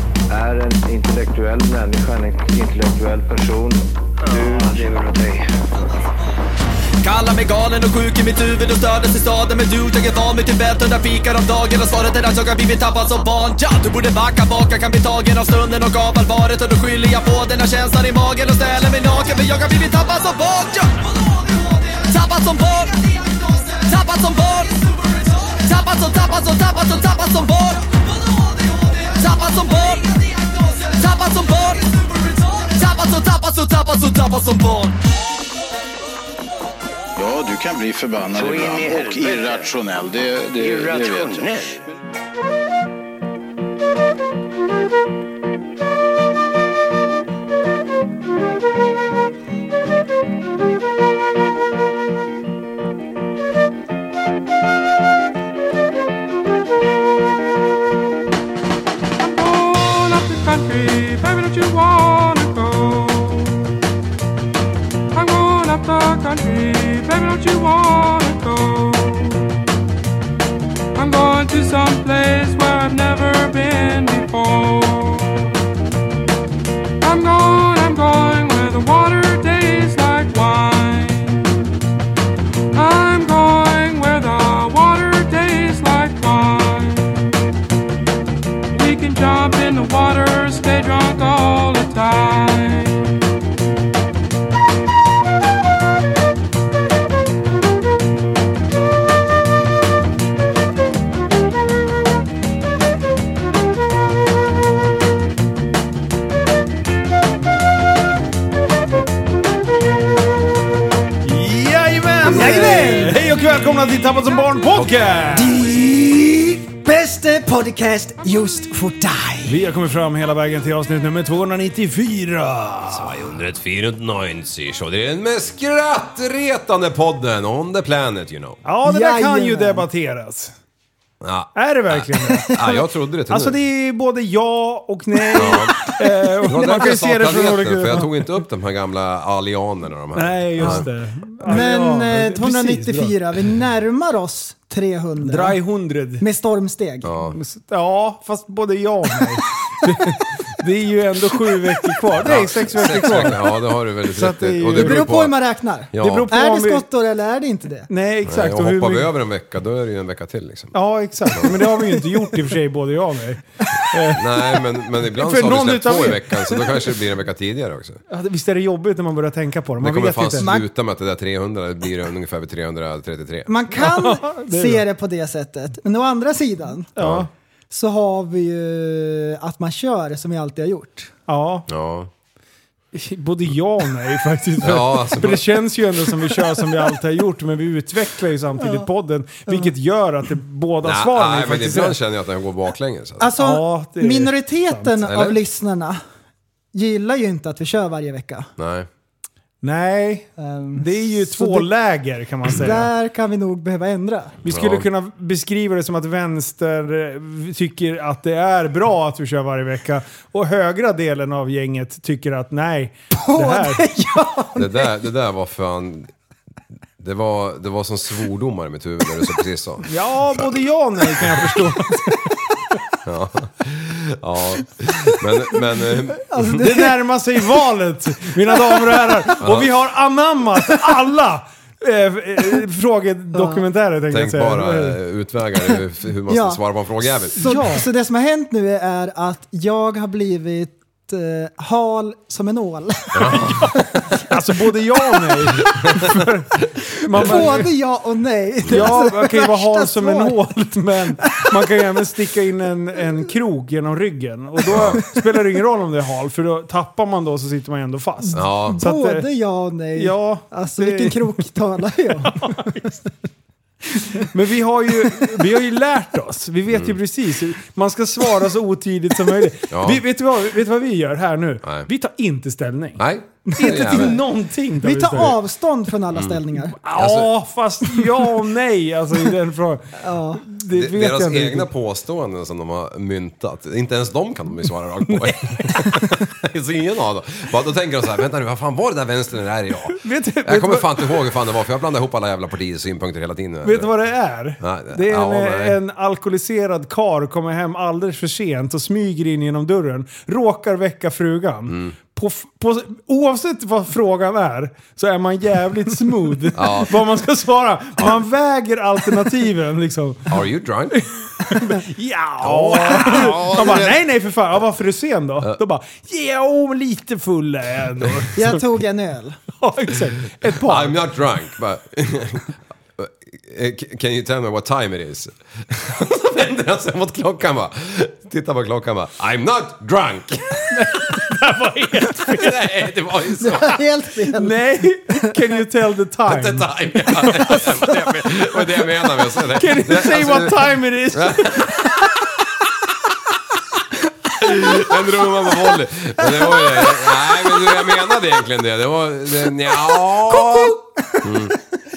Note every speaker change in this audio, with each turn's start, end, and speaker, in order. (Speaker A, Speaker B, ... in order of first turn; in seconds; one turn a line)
Speaker A: 0.3-5.4
Speaker B: 7.0-35.0
Speaker C: 37.1-41.7
Speaker A: 38.4-39.7
Speaker A: 40.5-41.6
Speaker D: 59.2-63.7
Speaker D: 65.1-69.6
Speaker D: 70.9-75.6
Speaker D: 77.0-81.7
Speaker D: 82.7-87.4
Speaker D: 88.7-93.4
Speaker E: 111.2-115.7
Speaker F: 112.2-113.2
Speaker F: 115.3-119.6
Speaker E: 119.5-123.2
Speaker G: 122.9-128.6
Speaker E: 128.6-130.5
Speaker F: 128.8-129.8
Speaker G: 131.2-133.6
Speaker E: 131.5-132.6
Speaker F: 132.3-132.7
Speaker E: 133.3-138.3
Speaker F: 135.2-136.8
Speaker G: 135.3-135.9
Speaker G: 136.4-140.9
Speaker E: 140.1-143.2
Speaker F: 141.4-145.6
Speaker E: 145.2-146.2
Speaker F: 146.2-147.2
Speaker G: 147.0-147.3
Speaker E: 147.3-155.1
Speaker G: 152.2-155.3
Speaker F: 154.8-157.9
Speaker G: 155.9-156.3
Speaker E: 156.0-156.8
Speaker E: 157.9-159.1
Speaker G: 158.2-160.8
Speaker E: 160.7-166.9
Speaker G: 161.3-161.7
Speaker G: 164.1-168.0
Speaker E: 168.1-170.5
Speaker G: 169.8-173.5
Speaker F: 170.4-170.7
Speaker F: 173.5-176.9
Speaker E: 173.8-174.8
Speaker E: 176.9-177.3
Speaker G: 177.0-177.3
Speaker F: 177.7-181.1
Speaker E: 181.3-181.7
Speaker G: 181.7-182.1
Speaker E: 182.9-192.0
Speaker G: 184.6-185.7
Speaker F: 188.6-188.8
Speaker G: 190.8-193.3
Speaker F: 193.2-196.0
Speaker E: 193.4-194.9
Speaker G: 195.0-195.4
Speaker F: 196.7-198.5
Speaker G: 198.6-198.9
Speaker E: 199.6-202.9
Speaker F: 200.4-201.7
Speaker F: 202.5-204.4
Speaker G: 204.4-204.9
Speaker E: 204.5-213.9
Speaker F: 213.1-214.9
Speaker G: 214.6-216.1
Speaker G: 217.0-220.5
Speaker E: 219.8-222.3
Speaker G: 221.2-221.5
Speaker G: 223.0-226.6
Speaker F: 225.0-225.6
Speaker F: 226.1-226.9
Speaker E: 226.5-235.0
Speaker F: 228.5-229.3
Speaker G: 229.4-229.7
Speaker F: 233.3-233.6
Speaker G: 234.1-237.4
Speaker F: 236.3-236.6
Speaker F: 237.3-243.5
Speaker E: 237.4-237.8
Speaker G: 243.1-244.0
Speaker E: 243.7-247.7
Speaker G: 245.6-246.2
Speaker F: 247.1-250.4
Speaker E: 248.7-259.3
Speaker F: 251.2-251.7
Speaker G: 254.7-255.0
Speaker F: 258.2-262.6
Speaker G: 258.3-258.8
Speaker E: 259.9-261.4
Speaker E: 262.2-263.0
Speaker E: 264.1-273.0
Speaker G: 266.7-266.9
Speaker G: 269.7-270.0
Speaker G: 273.0-274.2
Speaker F: 273.5-274.1
Speaker E: 273.6-275.4
Speaker F: 274.8-276.8
Speaker G: 276.1-276.4
Speaker E: 276.8-281.7
Speaker G: 276.9-277.3
Speaker F: 280.0-280.4
Speaker G: 280.7-293.9
Speaker E: 285.1-286.0
Speaker E: 289.9-291.3
Speaker E: 293.6-318.6
Speaker G: 294.6-295.8
Speaker G: 301.7-301.9
Speaker G: 306.5-307.0
Speaker G: 310.3-311.0
Speaker G: 312.4-314.0
Speaker F: 318.3-319.4
Speaker E: 319.5-321.0
Speaker G: 320.4-331.3
Speaker E: 330.7-332.8
Speaker G: 332.1-333.8
Speaker F: 333.4-335.3
Speaker E: 334.3-338.2
Speaker G: 336.3-342.1
Speaker E: 339.4-341.9
Speaker G: 344.4-351.6
Speaker F: 346.8-347.1
Speaker F: 350.3-351.2